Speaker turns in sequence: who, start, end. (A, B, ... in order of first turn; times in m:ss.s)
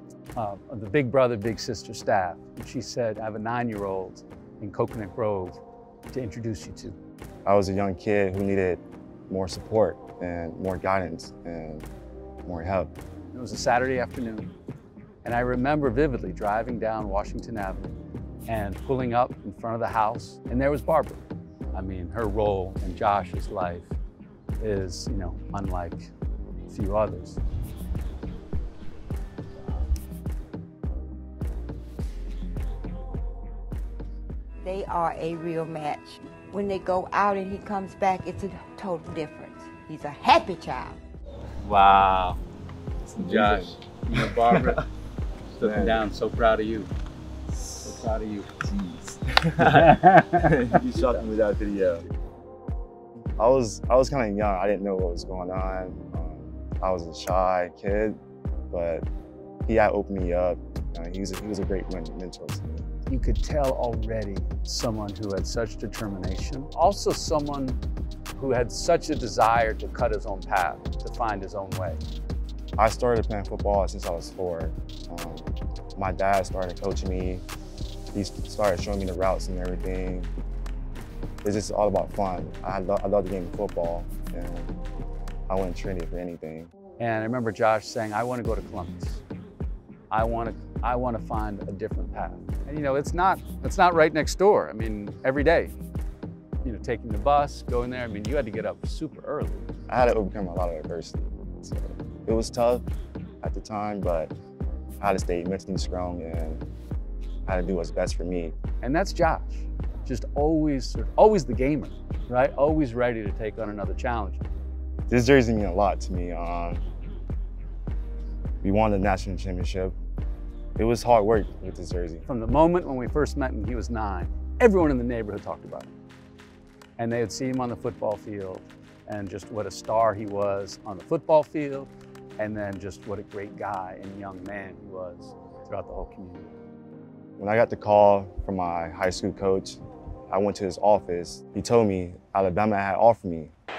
0:00.4-0:05.6 A
0:06.1-0:07.0 A
0:07.4-0:11.9 B
0:12.4-0:13.0 B
0:13.3-0:14.5 A
0:15.2-0:18.0 A
0:18.5-0:23.9 A
0:24.6-0:26.1 A
0:26.7-0:27.4 A
0:34.6-0:41.0 C
0:41.6-0:42.4 A
0:43.1-0:43.8 B
0:43.2-0:44.8 A
0:45.6-0:46.9 A
0:45.6-0:46.1 B
0:47.8-0:48.6 A
0:48.7-0:52.1 B
0:49.6-0:50.4 A
0:53.4-0:58.2 B
0:58.7-0:59.1 B
0:59.6-1:02.9 B
1:03.1-1:07.8 A
1:08.3-1:12.0 A
1:12.8-1:17.4 B
1:18.1-1:20.3 B
1:21.4-1:24.8 B
1:25.5-1:26.7 B
1:27.0-1:29.2 A
1:30.1-1:35.8 A
1:36.6-1:39.7 A
1:39.9-1:42.8 B
1:43.4-1:44.3 B
1:45.0-1:46.6 B
1:47.5-1:48.6 B
1:48.8-1:54.4 A
1:55.1-1:56.8 B
1:58.6-2:00.0 B
2:00.8-2:02.3 B
2:02.3-2:05.9 A
2:07.0-2:16.5 A
2:17.4-2:23.5 B